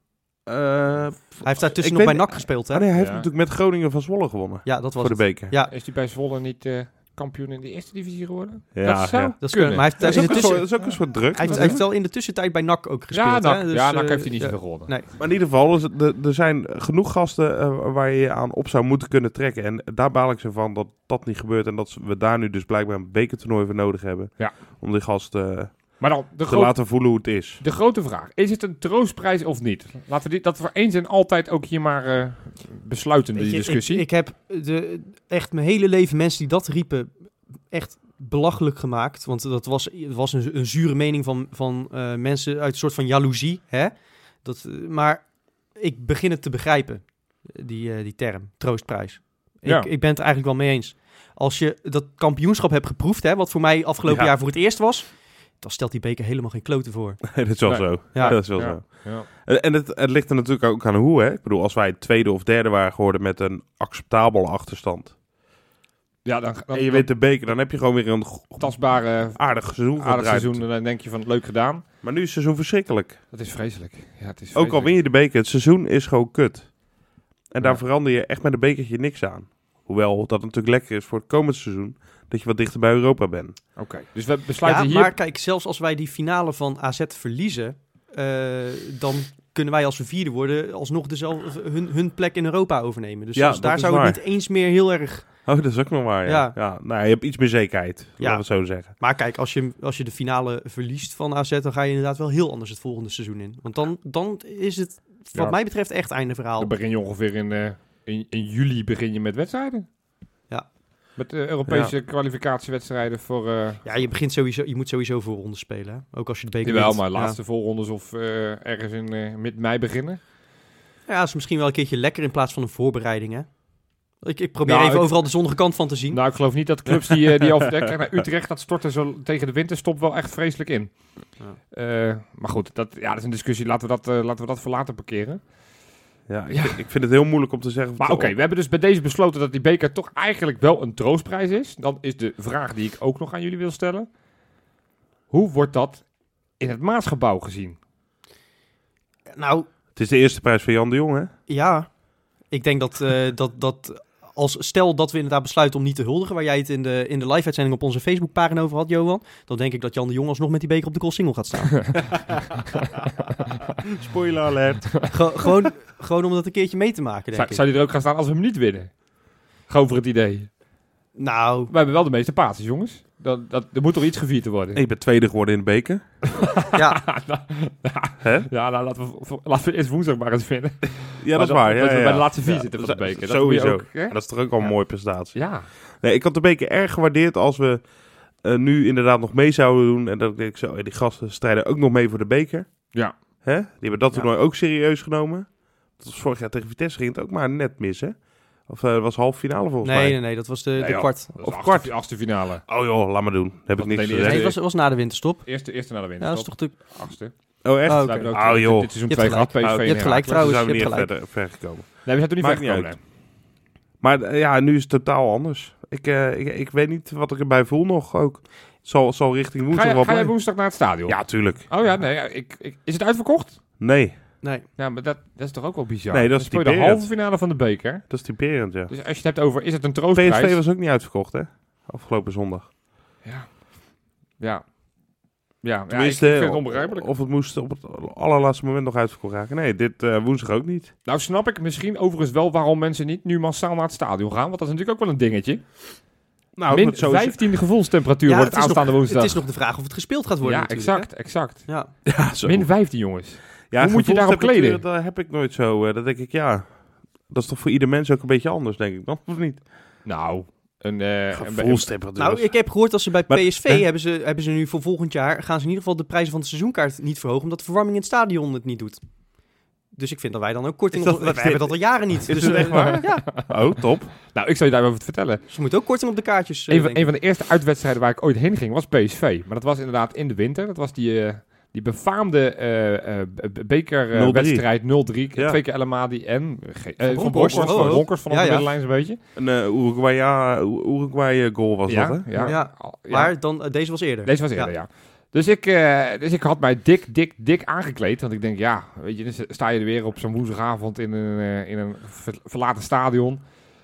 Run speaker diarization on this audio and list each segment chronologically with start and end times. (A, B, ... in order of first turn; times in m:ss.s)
0:00.5-0:05.5 A
0:01.4-0:02.9 B
0:03.0-0:03.3 C
0:04.6-0:05.7 B
0:05.7-0:11.8 C
0:08.7-0:11.8 A
0:09.4-0:15.1 B
0:13.1-0:14.9 C
0:15.2-0:27.6 A
0:26.0-0:34.1 C
0:33.4-0:37.1 B
0:37.7-0:57.3 B
0:54.1-0:54.3 A
0:57.3-1:05.2 A
0:57.7-0:59.3 C
1:06.2-1:07.1 C
1:06.7-1:10.6 A
1:08.6-1:11.8 C
1:12.0-1:13.2 A
1:13.3-1:14.9 C
1:14.6-1:16.7 A
1:17.5-1:23.6 A
1:23.8-1:25.1 C
1:24.6-1:35.3 B
1:33.4-1:34.2 A
1:35.5-1:38.9 A
1:36.2-1:36.6 B
1:38.2-1:46.7 B
1:46.6-1:49.9 C
1:51.2-1:53.9 C
1:51.7-1:51.9 A
1:53.8-1:57.4 B
1:56.6-2:00.2 C
2:01.1-2:03.5 B
2:04.2-2:06.2 B
2:04.7-2:05.2 C
2:06.1-2:10.9 C
2:06.9-2:07.9 A
2:11.7-2:15.4 C
2:16.3-2:18.3 A
2:16.5-2:16.8 C
2:18.0-2:24.1 C
2:25.3-2:26.0 C
2:26.6-2:27.8 C
2:29.3-2:29.7 B
2:30.0-2:31.3 A
2:31.5-2:31.9 B
2:32.5-2:42.2 B
2:43.8-2:45.1 A
2:45.1-2:47.6 B
2:47.3-2:48.9 C
2:49.7-2:50.5 C
2:51.2-2:51.7 B
2:51.7-2:54.8 C
2:54.7-2:56.0 A
2:56.2-3:04.7 C
2:56.7-2:57.0 B
2:58.2-2:58.5 A
3:01.2-3:07.9 A
3:05.3-3:05.7 C
3:08.4-3:12.9 A
3:13.4-3:20.2 A
3:19.8-3:21.3 B
3:20.8-3:22.7 C
3:21.4-3:21.9 A
3:22.7-3:24.5 A
3:23.8-3:24.6 C
3:24.2-3:25.5 B
3:25.4-3:27.3 C
3:26.2-3:26.8 B
3:27.6-3:28.9 A
3:27.9-3:28.3 B
3:27.9-3:30.4 C
3:29.1-3:31.1 B
3:29.6-3:33.0 A
3:32.1-3:33.0 C
3:34.0-3:40.4 A
3:39.7-3:43.6 C
3:41.1-3:41.7 A
3:43.8-3:44.1 A
3:44.8-3:48.1 C
3:46.1-3:47.1 A
3:48.1-3:48.9 A
3:48.9-3:50.6 C
3:50.1-3:52.7 A
3:53.2-3:53.6 C
3:54.4-3:54.7 C
3:55.6-3:57.1 C
3:55.9-4:00.9 A
4:01.1-4:05.6 C
4:06.6-4:07.4 A
4:06.7-4:09.4 C
4:08.3-4:11.1 B
4:10.4-4:11.7 C
4:12.1-4:12.7 A
4:12.4-4:14.8 C
4:13.7-4:16.7 A
4:17.3-4:19.6 A
4:20.0-4:21.9 C
4:21.3-4:22.5 A
4:22.2-4:29.0 B
4:23.3-4:23.8 A
4:30.0-4:33.3 B
4:30.9-4:34.1 A
4:32.6-4:33.5 C
4:34.3-4:35.4 C
4:35.5-4:37.1 B
4:36.7-4:49.2 C
4:44.1-4:44.7 A
4:47.0-4:48.6 B
4:47.3-4:48.1 A
4:49.4-4:52.6 A
4:51.9-4:53.3 C
4:52.4-4:54.7 B
4:54.2-5:03.4 C